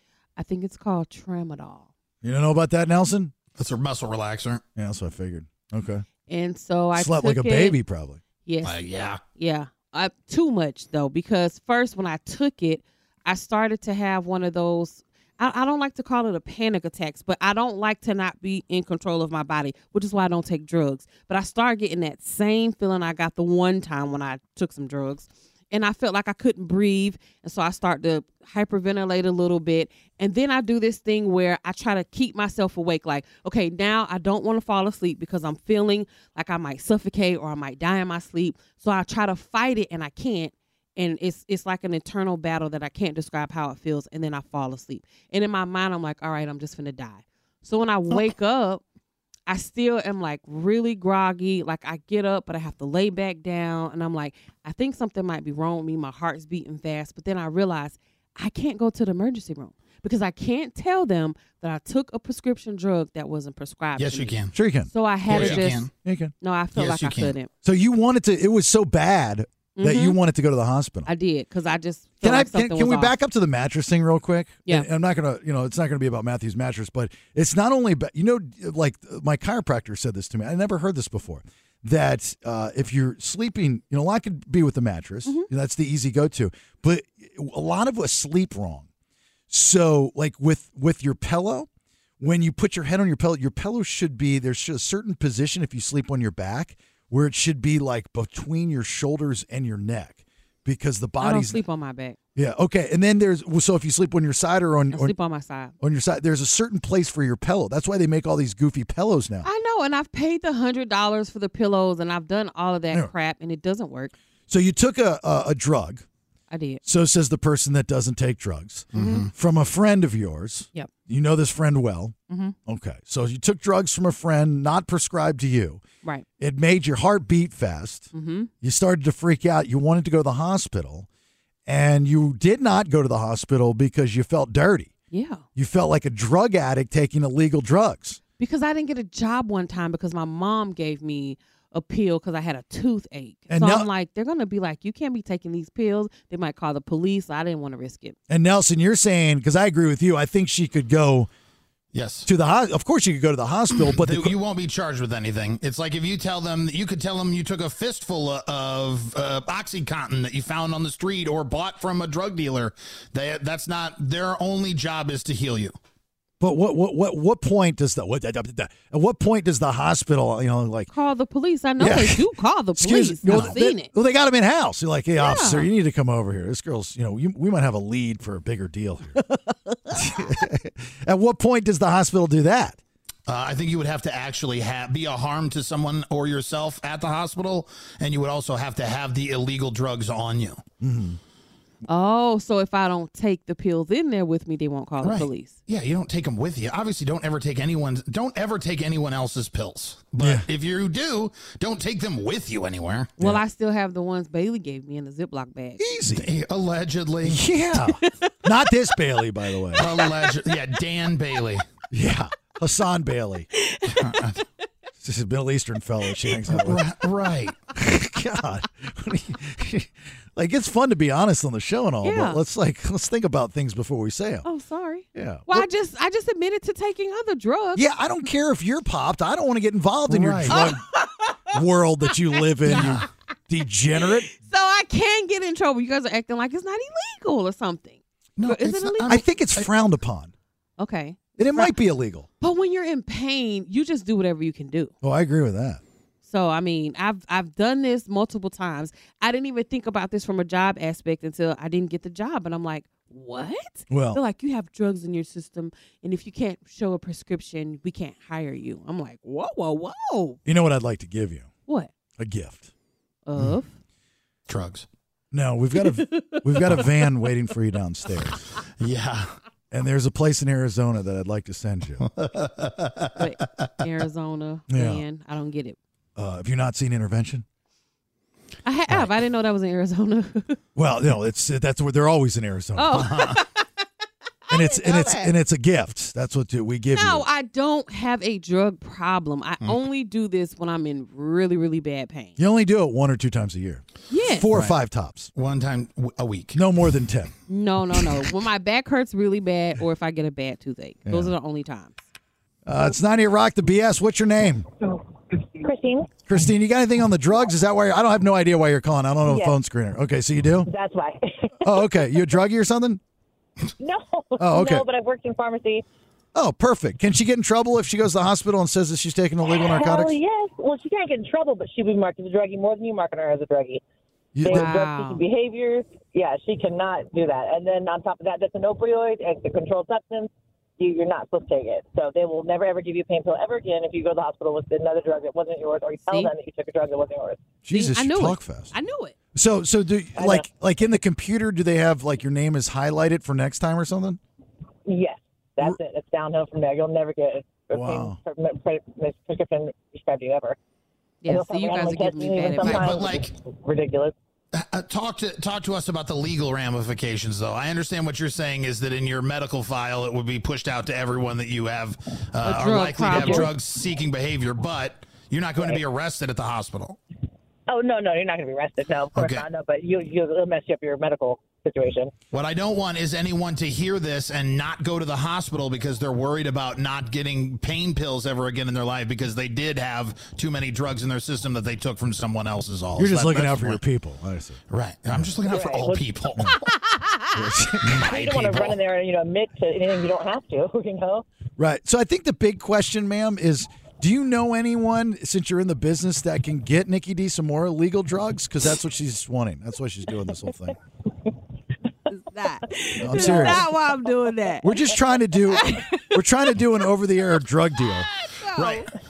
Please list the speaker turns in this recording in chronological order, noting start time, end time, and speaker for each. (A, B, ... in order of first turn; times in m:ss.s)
0:00.4-0:01.9 A
0:02.2-0:03.3 B
0:03.6-0:04.6 C
0:04.8-0:06.0 B
0:06.3-0:07.8 A
0:06.9-0:08.2 B
0:08.4-0:48.8 A
0:08.6-0:09.2 C
0:49.5-1:04.4 A
1:04.0-1:04.5 C
1:04.5-1:06.3 B
1:04.9-1:05.9 A
1:05.3-1:05.9 C
1:06.4-1:07.5 A
1:06.8-1:07.3 C
1:07.6-1:11.1 B
1:09.8-1:10.2 A
1:11.0-1:13.1 A
1:12.2-1:28.9 B
1:29.5-1:31.7 B
1:32.2-1:41.6 B
1:41.2-1:42.2 A
1:42.3-1:45.1 B
1:44.9-1:45.7 A
1:45.8-1:49.5 B
1:49.4-1:54.1 A
1:54.5-1:56.0 B
1:56.5-1:56.8 A
1:56.8-2:02.1 B
1:58.9-1:59.3 C
1:58.9-1:59.2 A
2:02.3-2:02.5 A
2:02.6-2:05.8 B
2:06.4-2:08.1 B
2:08.1-2:08.5 A
2:08.6-2:11.1 B
2:11.6-2:14.9 B
2:15.1-2:15.4 A
2:15.5-2:18.2 B
2:18.4-2:28.2 A
2:23.5-2:23.9 B
2:28.3-2:31.3 B
2:31.9-2:32.3 C
2:32.2-2:34.3 B
2:33.8-2:45.7 C
2:46.4-2:50.9 B
2:50.9-2:53.9 A
2:51.8-2:52.2 B
2:52.8-2:59.2 B
2:55.2-2:55.7 A
2:59.9-3:02.8 B
3:03.3-3:10.6 C
3:10.8-3:11.2 B
3:11.9-3:15.6 A
3:15.0-3:23.2 C
3:20.2-3:20.4 B
3:23.2-3:25.8 A
3:25.8-3:26.2 B
3:26.1-3:27.4 C
3:27.2-3:29.9 B
3:28.0-3:28.3 A
3:29.8-3:31.6 C
3:31.9-3:33.5 B
3:33.6-3:34.2 A
3:33.9-3:34.4 C
3:35.0-3:36.8 B
3:36.5-3:37.6 C
3:37.7-3:44.4 B
3:42.0-3:42.4 A
3:44.4-3:47.8 A
3:45.1-3:45.7 B
3:47.7-3:50.8 B
3:50.1-3:50.7 C
3:50.5-3:51.4 A
3:51.5-3:54.3 B
3:52.7-3:53.0 C
3:54.4-3:59.2 A
3:58.4-3:59.7 C
3:59.1-4:00.3 B
4:00.8-4:01.7 A
4:01.4-4:02.3 B
4:02.4-4:04.9 A
4:05.0-4:05.8 B
4:06.2-4:20.4 A
4:13.9-4:14.2 B
4:20.4-4:21.5 B
4:22.2-4:22.7 B
4:23.2-4:23.7 A
4:24.5-4:24.9 C
4:25.3-4:28.4 B
4:25.8-4:26.8 A
4:28.8-4:29.3 C
4:29.7-4:32.0 B
4:32.0-4:33.6 C
4:33.2-4:35.8 A
4:34.7-4:35.0 B
4:36.2-4:37.4 B
4:38.6-4:40.6 A
4:40.7-4:43.1 B
4:42.8-4:43.6 A
4:42.9-4:43.4 C
4:44.5-4:45.3 A
4:44.5-4:47.2 B
4:46.9-4:52.4 A
4:52.4-4:53.8 B
4:54.1-4:54.5 A
4:54.3-4:55.3 B
4:55.3-4:56.6 C
4:56.5-4:57.3 B
4:57.5-5:02.0 A
5:01.0-5:01.3 B
5:02.6-5:04.7 B
5:05.5-5:06.1 D
5:06.3-5:10.7 B
5:09.2-5:09.5 D
5:10.7-5:12.2 D
5:11.6-5:13.0 B
5:13.8-5:15.8 D
5:14.4-5:14.8 B
5:16.3-5:20.2 B
5:19.7-5:23.8 D
5:24.4-5:24.7 B
5:24.4-5:37.4 D
5:24.5-5:25.2 A
5:37.6-5:38.7 B
5:37.7-5:39.1 A
5:39.3-5:44.2 B
5:40.2-5:40.4 D
5:44.9-5:50.6 D
5:47.7-5:48.2 B
5:51.2-5:53.0 A
5:51.3-5:54.1 D
5:52.6-5:53.3 C
5:54.5-6:07.0 C
6:02.4-6:03.5 A
6:07.7-6:12.1 D
6:09.1-6:09.4 C
6:12.3-6:23.8 C
6:23.0-6:24.6 B
6:24.7-6:26.6 C
6:25.5-6:26.0 D
6:26.9-6:27.3 A
6:27.3-6:28.0 B
6:27.8-6:28.8 C
6:28.0-6:31.2 D
6:31.6-6:40.7 B
6:42.1-6:44.8 A
6:43.0-6:43.6 B
6:43.1-6:43.5 D
6:44.6-6:48.1 B
6:45.4-6:46.1 A
6:48.4-6:48.8 A
6:48.6-6:48.8 C